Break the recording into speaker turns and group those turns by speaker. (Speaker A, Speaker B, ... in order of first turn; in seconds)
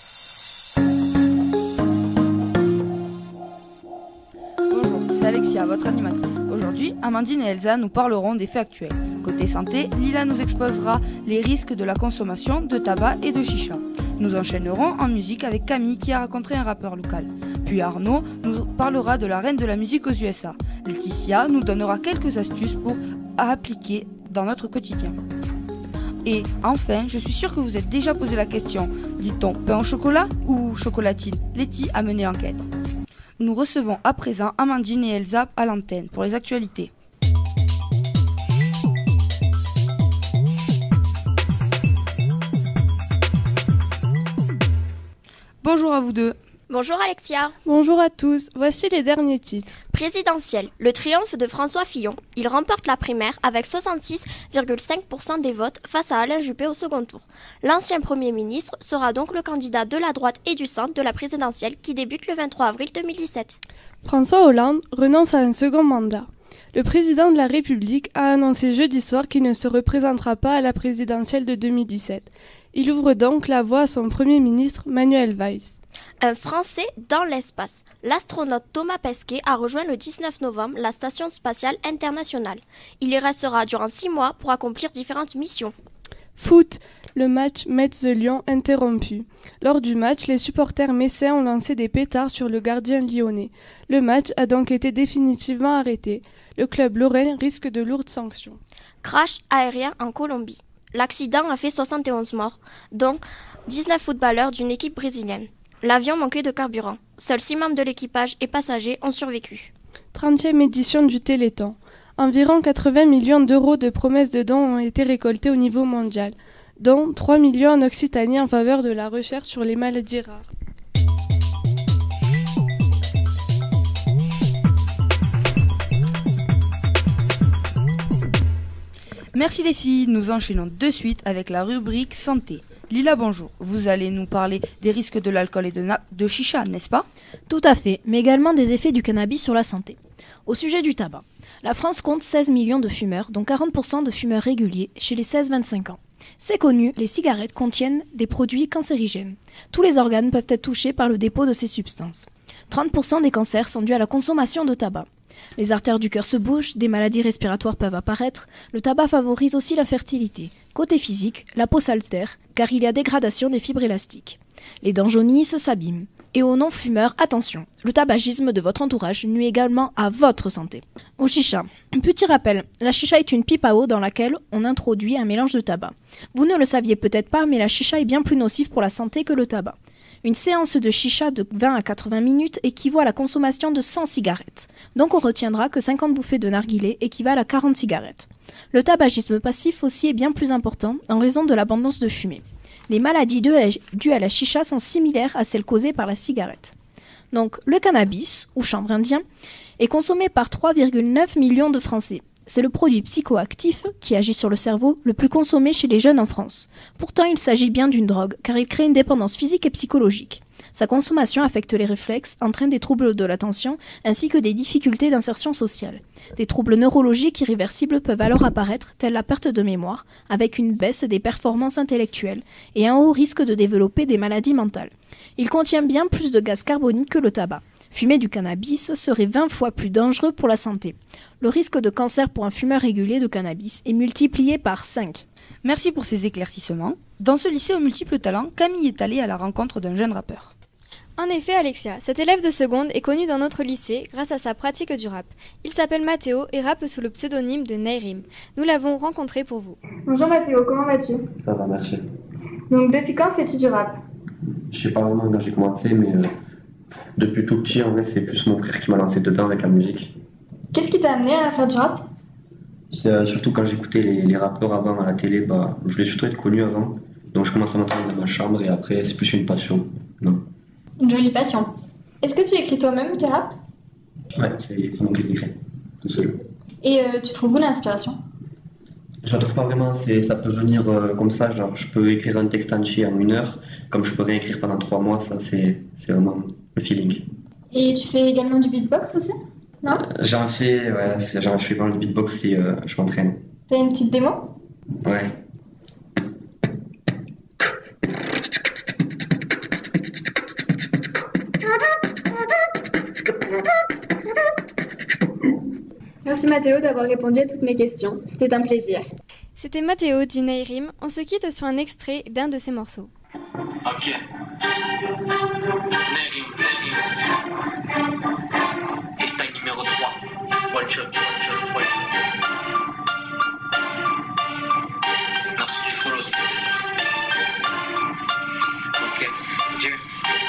Speaker A: 4.7-25.2, 26.2-32.7, 33.4-36.9, 45.6-46.4, 129.3-137.1, 235.6-240.5
Speaker B: 46.7-47.5, 49.9-63.6, 76.2-85.7, 99.0-109.7
Speaker C: 47.6-49.8, 64.0-75.8, 86.4-98.6, 110.1-120.5
Speaker D: 137.5-196.7, 197.3-199.2, 199.8-235.2
Speaker E: 241.2-249.8, 306.3-307.4, 309.6-313.1
Speaker F: 251.4-252.0, 254.7-256.3, 257.2-260.1, 262.9-270.4, 274.4-276.4, 279.2-287.2, 289.9-293.4, 295.1-295.4
Speaker G: 252.8-253.9, 306.3-306.5, 307.3-309.0
Speaker H: 313.8-314.2, 316.1-317.0, 319.2-320.2, 320.7-322.1, 325.6-326.4, 329.0-330.0